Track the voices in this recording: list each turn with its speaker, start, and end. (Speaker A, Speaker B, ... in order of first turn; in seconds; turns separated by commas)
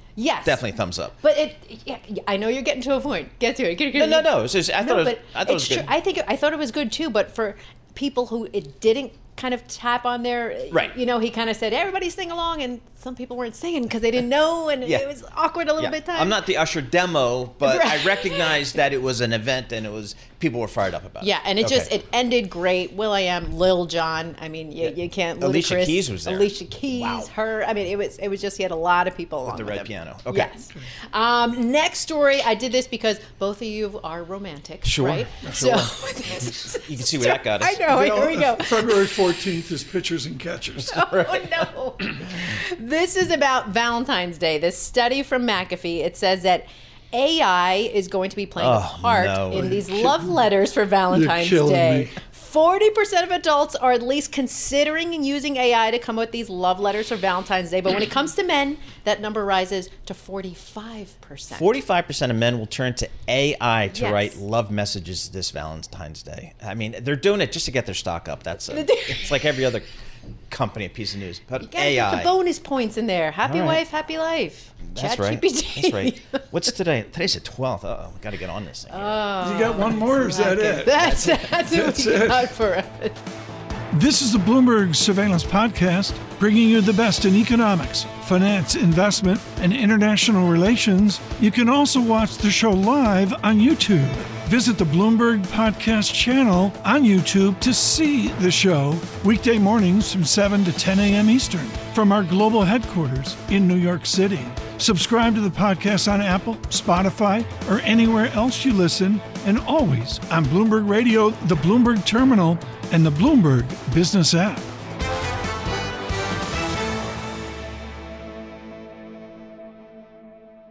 Speaker A: 0.2-0.6, Speaker B: 0.5-1.2, Speaker A: 1.2-16.4, Speaker B: 4.0-5.9, Speaker B: 10.7-11.0, Speaker B: 15.8-21.9, Speaker A: 17.6-18.6, Speaker A: 21.2-39.2, Speaker B: 24.8-27.3, Speaker B: 29.5-30.5, Speaker B: 34.8-38.2, Speaker C: 35.4-35.9, Speaker C: 37.9-41.1, Speaker A: 40.9-61.7, Speaker B: 41.1-41.4, Speaker B: 48.6-49.8, Speaker C: 49.5-50.3, Speaker C: 51.1-52.1, Speaker B: 61.5-69.9, Speaker A: 63.9-64.4, Speaker A: 68.7-69.4, Speaker B: 70.5-72.3, Speaker A: 71.6-76.4, Speaker B: 73.4-73.8, Speaker B: 74.8-79.2, Speaker A: 78.9-83.2, Speaker C: 79.4-82.5, Speaker C: 83.9-114.7